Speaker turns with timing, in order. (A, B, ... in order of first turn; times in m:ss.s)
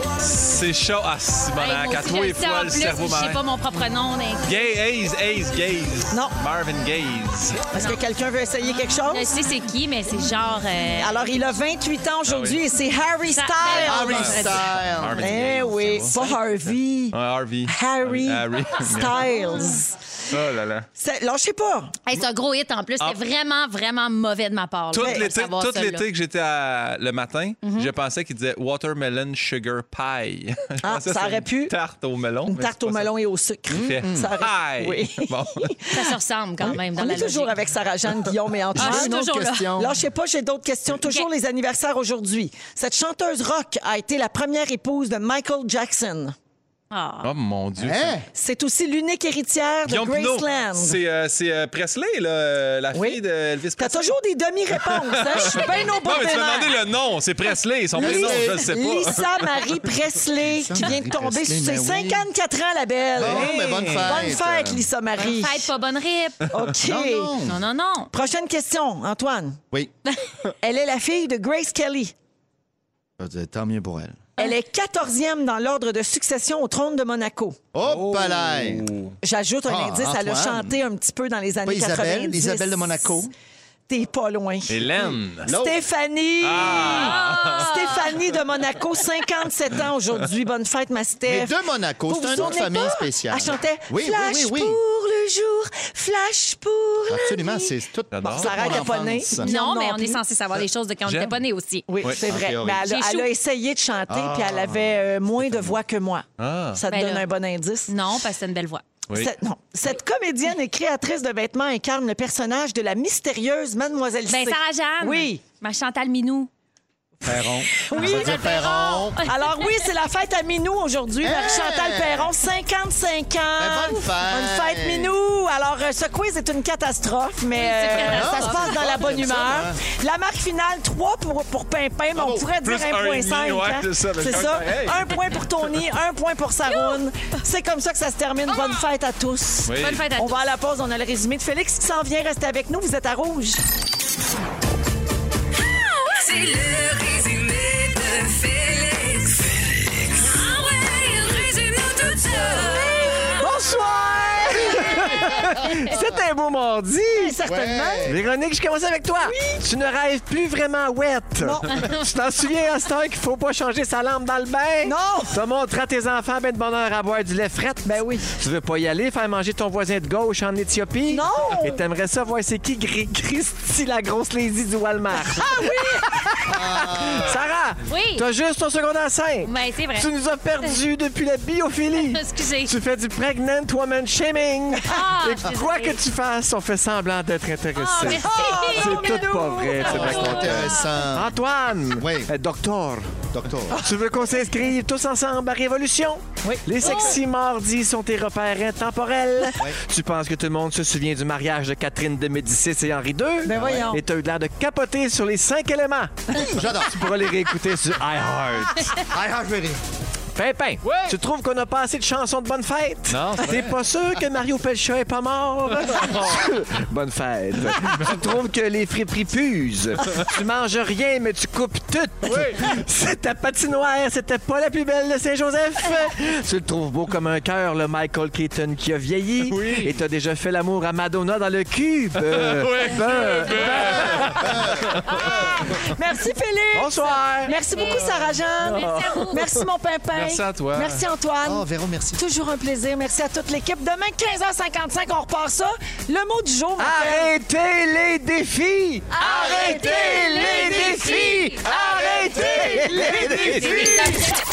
0:00.2-0:03.4 A
0:01.6-0:04.6 B
0:04.4-0:07.6 A
0:06.1-0:06.4 C
0:07.7-0:09.4 C
0:07.8-0:08.0 B
0:09.1-0:11.5 B
0:11.0-0:14.5 C
0:12.3-0:12.6 A
0:13.3-0:14.6 B
0:13.7-0:15.7 D
0:13.8-0:20.9 A
0:15.2-0:20.0 C
0:21.0-0:22.0 C
0:22.1-0:26.0 B
0:24.9-0:33.1 A
0:25.0-0:25.3 C
0:27.6-0:27.9 B
0:30.8-0:31.7 C
0:32.5-0:46.4 C
0:33.7-0:35.7 A
0:34.0-0:34.3 D
0:35.9-0:37.6 B
0:38.8-0:39.9 B
0:39.0-0:39.9 D
0:46.9-0:47.3 B
0:47.2-0:48.2 A
0:47.8-0:48.3 D
0:48.3-0:51.0 C
0:49.9-0:54.2 A
0:52.9-0:53.2 C
0:53.8-0:56.8 C
0:54.7-0:59.9 A
0:55.3-0:55.9 B
0:57.9-1:05.7 C
0:58.0-0:58.6 D
1:00.5-1:02.3 D
1:03.2-1:04.9 D
1:03.2-1:04.1 A
1:05.2-1:06.5 B
1:06.5-1:07.3 C
1:06.8-1:07.6 D
1:07.4-1:08.1 B
1:08.1-1:09.6 C
1:10.6-1:12.1 C
1:13.2-1:14.2 D
1:14.4-1:17.6 C
1:17.7-1:18.9 D
1:17.8-1:19.1 A
1:19.2-1:23.2 C
1:19.7-1:20.8 D
1:21.6-1:23.3 D
1:23.9-1:40.2 C
1:24.7-1:25.5 A
1:25.4-1:25.8 D
1:26.4-1:28.0 A
1:26.6-1:28.1 B
1:31.3-1:34.8 D
1:37.1-1:39.5 D
1:38.1-1:38.9 A
1:39.4-1:41.9 B
1:40.6-1:41.4 A
1:41.9-1:47.9 C
1:42.2-1:42.9 D
1:42.8-1:43.3 B
1:44.1-1:45.8 D
1:46.4-1:46.8 A
1:46.9-1:47.3 B
1:47.9-1:48.9 B
1:49.1-1:55.4 C
1:54.3-1:56.5 B
1:57.2-1:59.3 D
1:57.2-1:58.6 C
1:57.9-1:59.8 B
1:59.2-2:23.6 C
2:01.2-2:02.3 D
2:03.6-2:05.2 D
2:07.5-2:09.6 B
2:07.9-2:09.8 D
2:12.2-2:12.5 D
2:12.6-2:15.5 A
2:16.7-2:17.0 B
2:18.5-2:18.8 B
2:19.7-2:20.0 A
2:19.8-2:20.4 B
2:26.0-2:33.4 E
2:33.4-2:37.4 F
2:33.4-2:35.3 C
2:35.2-2:35.5 D
2:37.2-2:38.1 C
2:37.4-2:38.2 D
2:38.0-3:29.0 F
2:39.2-2:39.6 C
2:41.4-2:41.8 C
2:44.8-2:45.4 C
2:47.8-2:48.3 C
2:51.1-2:51.8 C
2:55.2-2:56.6 C
2:56.5-2:57.4 D
2:57.9-2:58.3 B
2:59.4-3:00.1 B
3:02.0-3:02.7 B
3:04.8-3:06.0 B
3:07.8-3:09.2 B
3:08.0-3:10.7 C
3:09.8-3:11.0 B
3:09.8-3:11.3 D
3:12.0-3:12.3 D
3:13.3-3:13.8 D
3:16.4-3:17.2 C
3:16.8-3:17.2 B
3:23.4-3:24.0 C
3:26.4-3:27.0 D
3:29.0-3:29.8 D
3:30.4-3:54.5 F
3:30.8-3:31.2 A
3:33.1-3:33.8 A
3:35.8-3:36.2 A
3:37.7-3:38.3 A
3:42.3-3:42.7 A
3:49.5-3:50.0 A
3:52.2-3:55.1 A
3:53.1-3:54.0 B
3:53.8-3:55.6 D
3:55.1-4:07.3 C
3:56.7-3:57.6 F
3:57.7-3:59.4 B
3:58.6-3:59.6 F
4:00.1-4:01.1 A
4:01.4-4:02.2 D
4:06.8-4:14.2 F
4:09.1-4:14.3 C
4:09.2-4:11.6 B
4:13.3-4:13.9 D
4:13.4-4:14.4 B